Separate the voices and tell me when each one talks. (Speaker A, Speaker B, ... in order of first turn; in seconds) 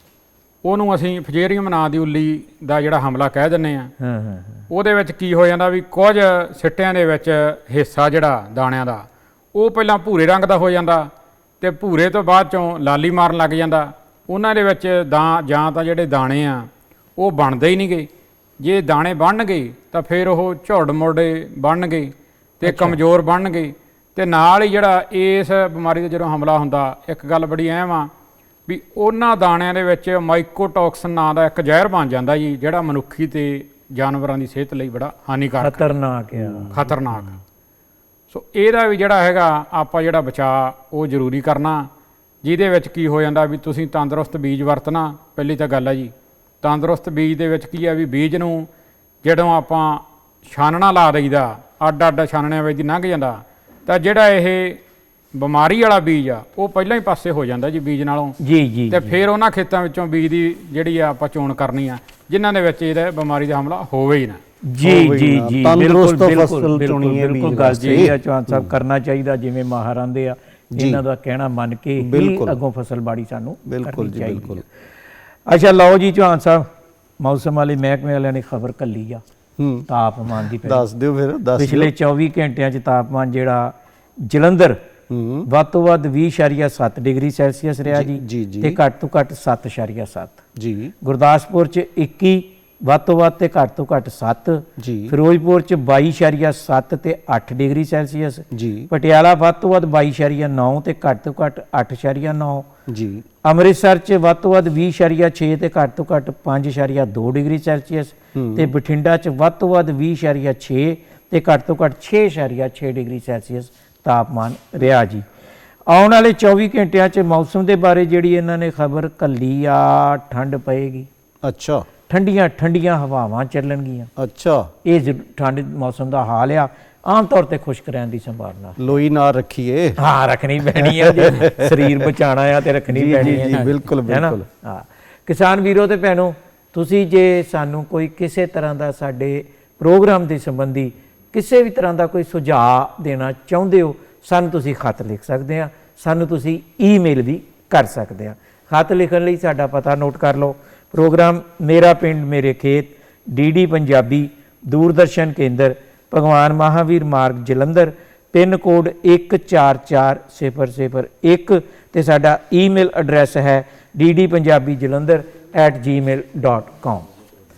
Speaker A: 0.6-3.9, 4.7-11.1, 11.6-18.1, 18.6-28.1, 28.7-35.9, 36.7-37.4, 38.3-41.9, 42.4-48.7, 49.2-54.8, 55.3-58.4, 58.9-64.4, 67.7-68.1, 133.3-133.7
Speaker B: 4.0-4.7, 22.6-23.0, 35.6-36.8, 58.4-59.1, 64.7-74.7, 75.5-76.7, 77.2-79.2, 79.9-80.8, 81.6-83.7, 84.2-84.8, 85.5-90.4, 91.0-102.7, 103.4-115.3, 115.9-121.1, 122.1-124.1, 124.8-128.8, 130.0-167.1
Speaker C: 36.4-36.9, 64.8-68.7, 70.8-71.0, 72.0-72.6, 73.7-74.6, 79.6-79.9, 80.5-81.9, 85.1-85.5, 87.9-88.8, 90.6-90.9, 94.8-95.2, 98.5-98.9, 102.9-103.3, 108.3-108.7, 121.4-121.9, 124.2-124.7, 128.8-130.0, 130.8-132.1, 132.9-134.5